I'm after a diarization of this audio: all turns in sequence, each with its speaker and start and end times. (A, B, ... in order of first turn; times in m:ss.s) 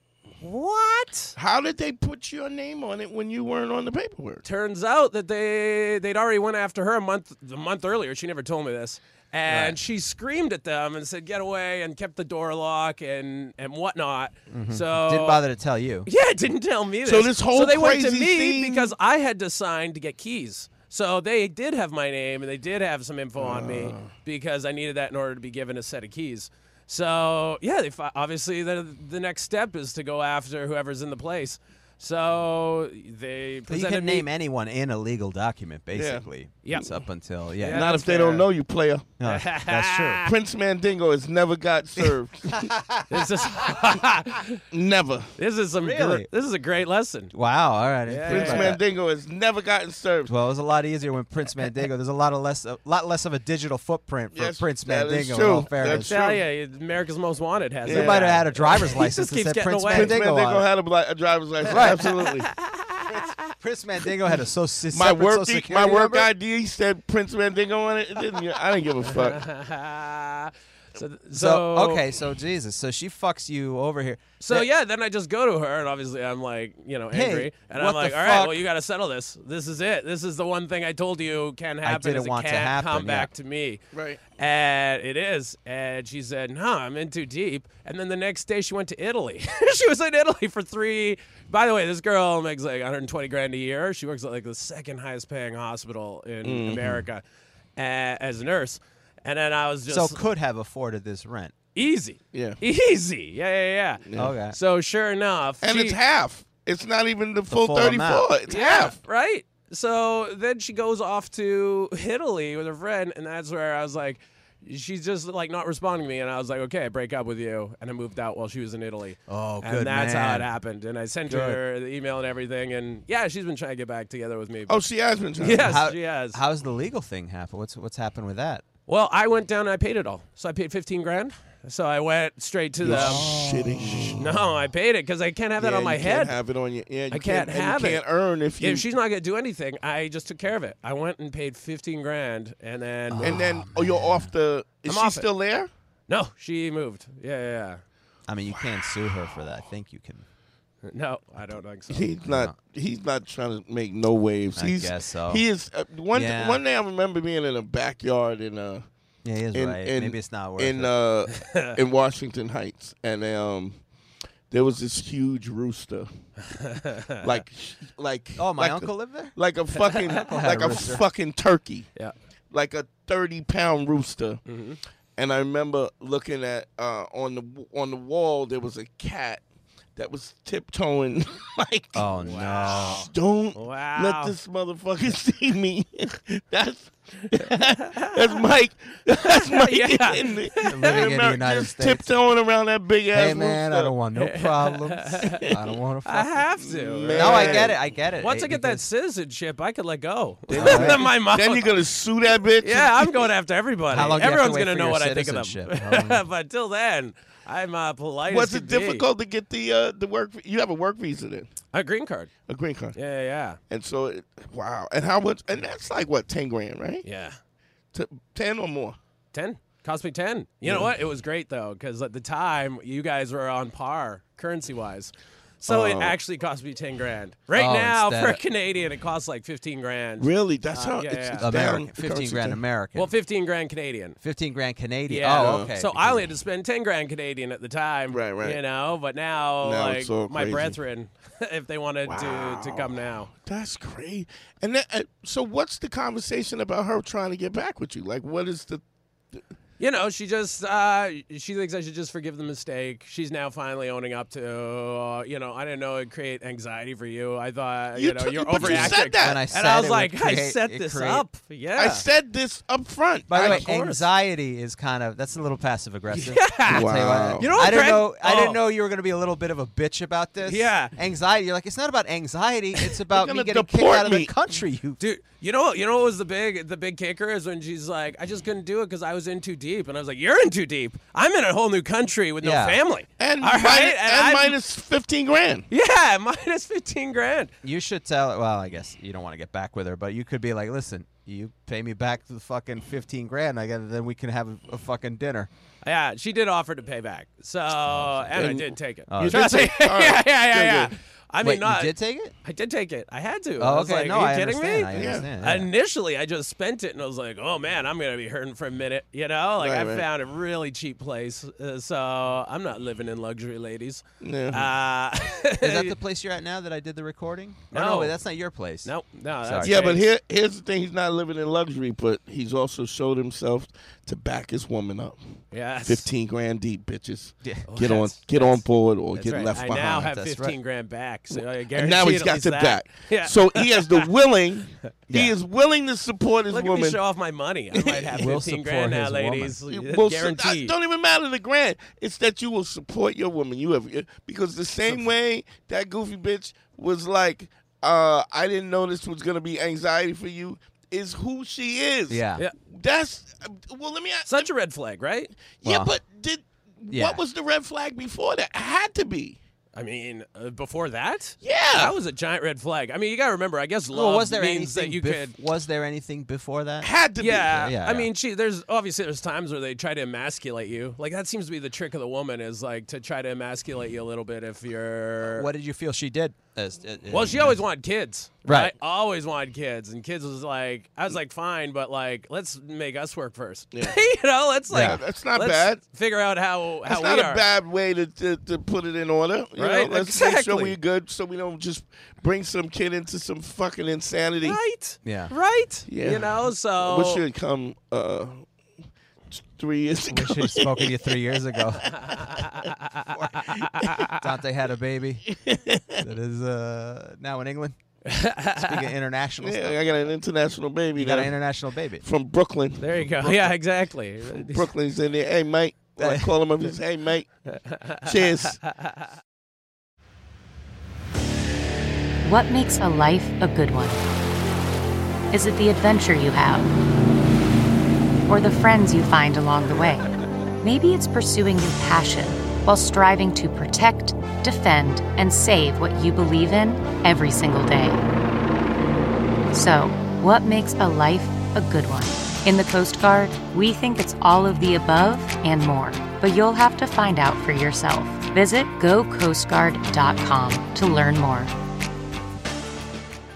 0:00.4-0:01.3 A
0:01.4-0:04.4 B
0:04.4-0:15.4 A
0:09.5-0:09.8 C
0:14.5-0:16.1 C
0:16.0-0:34.3 A
0:17.0-0:18.9 B
0:23.4-0:24.1 B
0:33.7-0:37.9 C
0:35.9-0:36.3 B
0:36.6-0:36.9 A
0:37.6-0:38.5 A
0:37.7-0:39.1 B
0:39.2-0:40.2 C
0:39.2-0:40.3 A
0:40.2-0:42.7 B
0:42.0-0:43.8 C
0:43.1-0:44.6 A
0:44.7-0:45.3 B
0:45.4-0:47.3 A
0:45.8-0:46.3 C
0:47.3-0:48.8 C
0:48.0-0:48.8 A
0:48.3-0:50.3 B
0:50.3-0:56.1 C
0:54.3-0:56.4 B
0:56.0-1:00.2 A
0:57.9-0:58.3 B
0:57.9-1:00.7 C
0:59.9-1:02.5 B
1:01.6-1:02.1 C
1:01.8-1:03.3 A
1:03.1-1:06.3 C
1:04.9-1:09.4 B
1:09.0-1:12.1 A
1:11.3-1:14.7 C
1:14.4-1:23.8 A
1:17.1-1:18.6 C
1:21.8-1:23.3 C
1:23.9-1:24.2 B
1:24.4-1:37.2 A
1:36.4-1:37.0 B
1:37.8-1:40.2 A
1:39.9-1:41.5 C
1:41.7-1:46.0 A
1:42.3-1:42.6 B
1:44.0-1:44.3 B
1:44.2-1:44.6 C
1:45.6-1:49.0 B
1:47.5-1:48.3 C
1:48.5-2:04.8 A
1:59.3-2:00.5 C
2:01.3-2:01.6 C
2:04.7-2:05.8 B
2:05.4-2:06.4 A
2:05.5-2:08.6 C
2:08.9-2:13.3 A
2:12.8-2:14.2 B
2:12.8-2:14.4 C
2:14.1-2:16.3 A
2:15.6-2:18.8 B
2:17.1-2:18.0 A
2:18.6-2:23.4 A
2:23.1-2:24.3 C
2:23.2-2:25.7 B
2:24.8-2:25.3 A
2:26.1-2:27.8 A
2:28.3-2:30.2 C
2:28.5-2:28.8 B
2:30.8-2:32.1 A
2:31.9-2:38.8 B
2:32.2-2:32.5 C
2:34.6-2:35.4 C
2:36.1-2:36.6 C
2:39.2-2:40.9 C
2:39.5-2:43.8 B
2:41.4-2:41.7 A
2:44.5-2:46.1 B
2:46.5-2:47.4 A
2:47.2-2:51.9 B
2:48.4-2:49.3 C
2:50.0-2:51.0 C
2:52.5-2:54.4 B
2:54.5-2:54.8 A
2:55.2-2:59.4 B
3:00.0-3:02.1 B
3:01.9-3:03.1 C
3:02.2-3:04.3 A
3:02.6-3:13.9 B
3:07.3-3:08.4 A
3:09.2-3:11.0 A
3:10.6-3:12.1 C
3:13.1-3:16.4 C
3:14.2-3:15.5 A
3:15.3-3:15.6 B
3:16.0-3:21.7 A
3:16.6-3:17.8 B
3:17.1-3:18.8 C
3:20.5-3:23.3 B
3:20.5-3:21.0 C
3:22.6-3:29.0 A
3:23.9-3:26.2 C
3:28.3-3:31.5 B
3:31.7-3:32.3 A
3:32.5-3:33.0 B
3:33.0-3:33.6 A
3:33.7-3:37.0 B
3:37.0-3:37.4 A
3:37.9-3:39.0 B
3:39.3-3:51.5 A
3:40.6-3:40.9 B
3:45.6-3:46.2 B
3:47.5-3:48.4 C
3:50.2-3:52.6 B
3:51.4-3:53.1 C
3:52.9-3:54.2 A
3:54.2-3:56.3 C
3:55.1-4:03.3 A
3:55.3-3:55.7 B
3:58.1-3:58.6 B
3:59.6-4:00.8 B
4:02.0-4:08.8 B
4:09.8-4:22.0 A
4:18.0-4:19.4 B
4:18.6-4:21.2 C
4:21.7-4:23.6 B
4:23.3-4:35.0 C
4:23.4-4:24.0 A
4:26.1-4:26.9 A
4:26.7-4:27.5 B
4:27.4-4:28.6 A
4:30.4-4:30.9 A
4:33.1-4:34.3 B
4:35.0-4:44.6 A
4:42.4-4:42.8 C
4:43.2-4:45.7 B
4:45.7-4:47.5 A
4:47.6-4:55.5 C
4:55.8-5:15.9 A
4:57.8-4:58.4 C
4:58.4-5:00.9 B
4:59.1-4:59.5 C
5:01.4-5:02.3 C
5:03.6-5:05.7 C
5:04.9-5:05.3 B
5:09.6-5:10.0 B
5:14.2-5:14.7 B
5:15.6-5:19.8 C
5:17.7-5:18.1 A
5:18.8-5:20.1 A
5:19.6-5:25.2 B
5:25.5-5:26.0 A
5:25.8-5:30.0 B
5:27.7-5:28.6 A
5:29.1-5:34.0 A
5:29.7-5:30.6 C
5:31.7-5:37.0 B
5:35.1-5:35.3 C
5:36.5-5:40.7 A
5:37.7-5:38.3 B
5:38.1-5:39.6 C
5:39.7-5:54.5 B
5:52.1-5:52.4 C
5:54.3-5:55.3 A
5:55.6-5:59.4 B
5:55.6-5:56.0 C
5:56.9-5:57.2 C
5:59.7-6:05.4 A
6:01.4-6:01.9 B
6:03.9-6:06.9 C
6:06.8-6:07.7 B
6:07.2-6:15.5 A
6:07.4-6:08.1 C
6:15.3-6:17.6 C
6:17.1-6:27.4 A
6:18.4-6:18.7 C
6:24.7-6:25.0 C
6:24.7-6:25.8 B
6:26.8-6:34.6 B
6:29.6-6:30.8 A
6:34.4-6:37.2 A
6:35.0-6:35.3 C
6:35.9-6:38.4 B
6:39.3-6:41.0 B
6:40.1-6:41.9 C
6:41.9-6:42.2 B
6:41.9-6:44.2 A
6:43.1-6:43.5 C
6:44.0-6:45.3 C
6:45.2-6:46.0 B
6:46.0-6:47.8 C
6:48.0-6:48.8 A
6:48.6-6:49.8 C
6:49.4-6:51.4 B
6:51.0-6:52.0 C
6:52.0-6:53.4 B
6:52.8-6:54.7 A
6:54.3-6:57.3 B
6:56.0-6:56.3 C
6:57.5-6:58.0 A
6:58.0-6:58.6 B
7:02.2-7:04.0 D
7:05.3-7:06.7 D
7:08.2-7:18.0 D
7:19.5-7:31.5 D